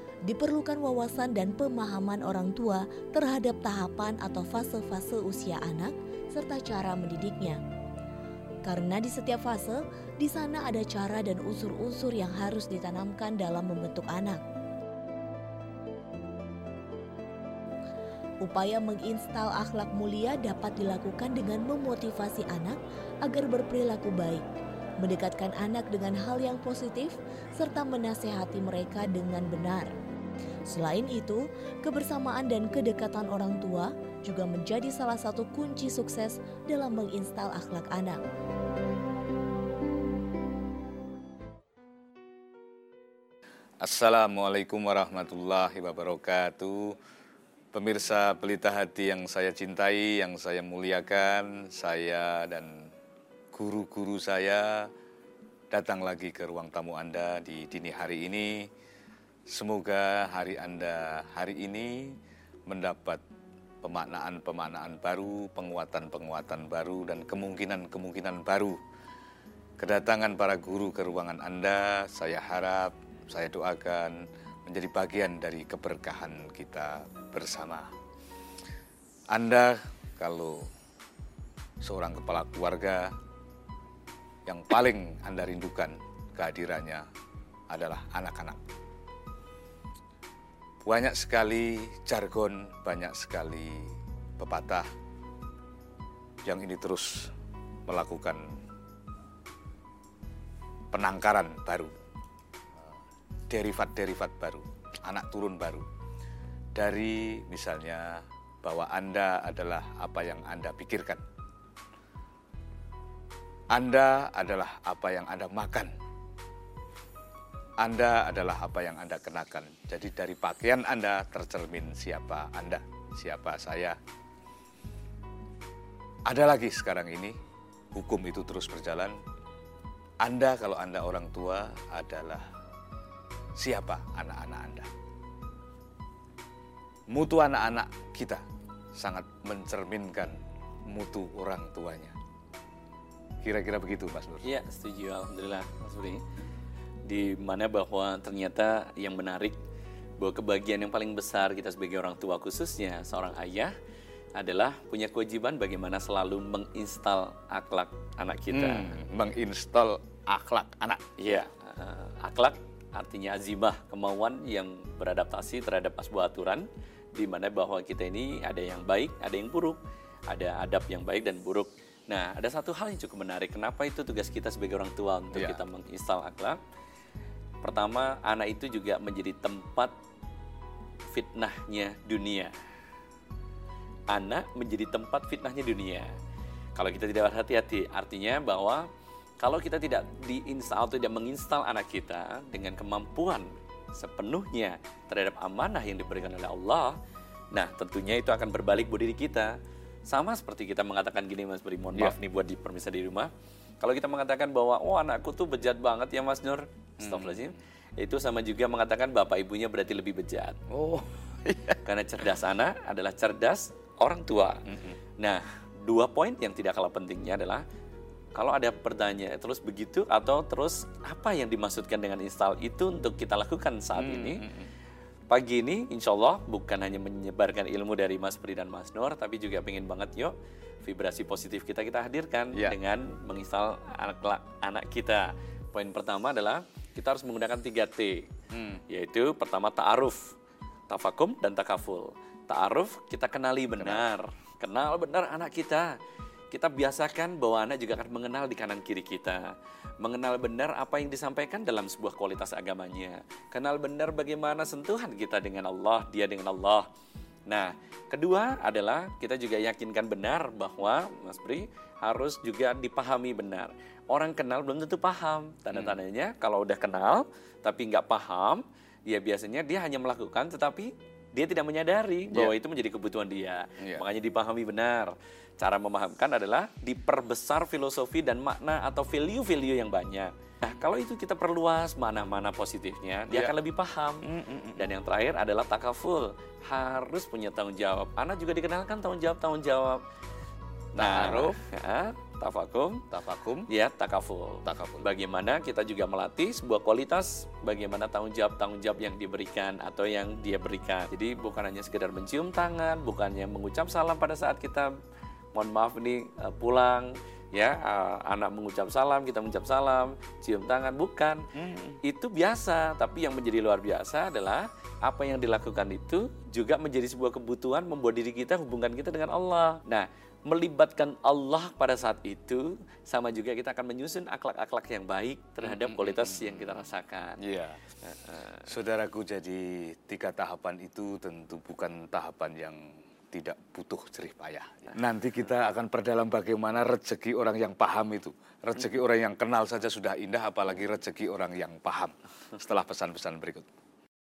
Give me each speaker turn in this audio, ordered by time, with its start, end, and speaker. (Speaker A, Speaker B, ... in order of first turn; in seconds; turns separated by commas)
Speaker A: 0.2-7.6, Speaker A: 8.6-14.4, Speaker A: 18.4-24.4, Speaker A: 25.0-29.9, Speaker A: 30.7-38.2, Speaker B: 43.8-47.0, Speaker B: 47.7-52.9, Speaker B: 53.5-54.9, Speaker B: 55.7-58.7, Speaker B: 59.5-62.2, Speaker B: 62.7-63.2, Speaker B: 63.8-68.8, Speaker B: 69.8-77.9, Speaker B: 79.3-80.7, Speaker B: 81.8-83.1, Speaker B: 84.5-87.0, Speaker B: 87.7-88.6, Speaker B: 90.8-94.9, Speaker B: 96.4-97.3, Speaker B: 97.9-98.5, Speaker B: 100.9-101.9, Speaker B: 103.5-105.8, Speaker B: 106.8-111.2, Speaker B: 113.7-115.9, Speaker B: 117.8-124.0, Speaker B: 126.2-127.3, Speaker B: 127.9-129.2, Speaker B: 130.2-132.4, Speaker B: 133.6-134.9, Speaker B: 137.1-138.4, Speaker B: 139.0-140.3, Speaker B: 140.9-142.2, Speaker B: 143.4-144.5, Speaker C: 144.4-146.2, Speaker C: 147.0-149.6, Speaker C: 150.2-153.7, Speaker C: 154.3-159.0, Speaker B: 158.5-161.0, Speaker C: 161.2-176.6, Speaker B: 175.3-175.6, Speaker C: 177.6-179.9, Speaker C: 181.1-182.5, Speaker C: 184.1-186.1, Speaker C: 186.8-188.9, Speaker C: 189.4-197.0, Speaker C: 197.5-199.6, Speaker C: 200.1-210.6, Speaker B: 207.0-207.6, Speaker B: 210.7-211.8, Speaker C: 211.8-214.6, Speaker B: 214.7-215.0, Speaker C: 215.2-217.7, Speaker C: 218.3-224.4, Speaker B: 224.0-224.7, Speaker C: 225.3-238.3, Speaker B: 238.5-238.8, Speaker C: 238.9-240.2, Speaker C: 240.9-245.9, Speaker B: 243.8-244.1, Speaker C: 246.5-256.9, Speaker C: 257.5-290.0, Speaker B: 265.7-266.0, Speaker B: 273.8-274.0, Speaker B: 283.3-283.5, Speaker B: 284.2-284.9, Speaker B: 291.0-291.6, Speaker C: 291.0-293.1, Speaker B: 293.1-293.7, Speaker C: 293.7-304.9, Speaker B: 294.6-295.1, Speaker C: 305.5-311.4, Speaker B: 311.5-312.0, Speaker C: 312.0-327.4, Speaker B: 325.6-326.9, Speaker B: 327.4-327.8, Speaker C: 328.0-328.7, Speaker B: 328.7-343.6